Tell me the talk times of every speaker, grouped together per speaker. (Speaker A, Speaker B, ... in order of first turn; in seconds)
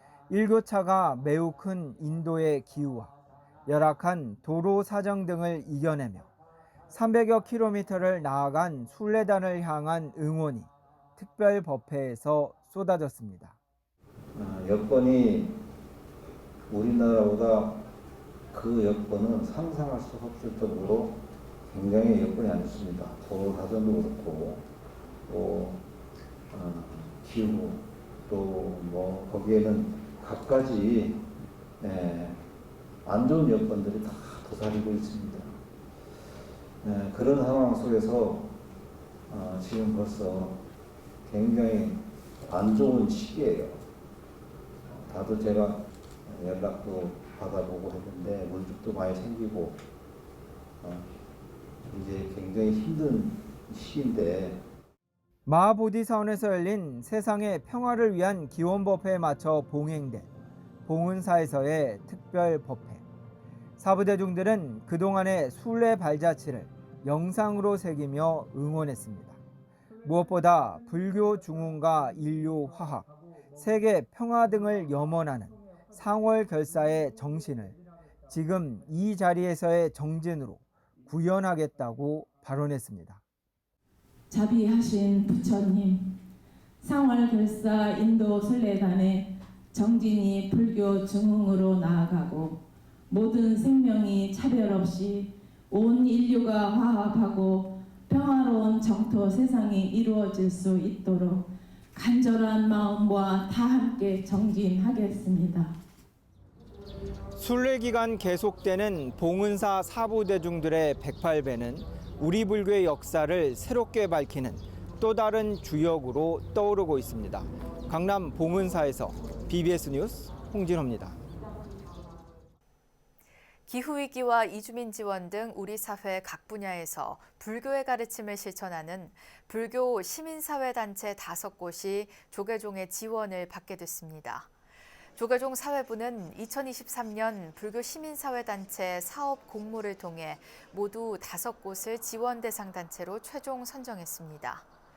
Speaker A: 0.3-3.1, 3.6-6.3, 6.9-13.6, 55.5-60.3, 60.9-63.0, 63.8-69.4, 70.0-77.8, 78.3-83.2, 107.4-121.2
Speaker B: 14.3-15.6, 16.7-17.9, 18.5-24.7, 25.2-25.8, 26.5-31.3, 31.8-32.4, 33.0-35.6, 36.8-38.6, 39.3-40.6, 41.2-43.8, 44.9-49.8, 50.8-51.1, 51.9-54.6
Speaker C: 84.3-86.2, 86.8-105.7
Speaker D: 123.7-134.5, 135.2-144.7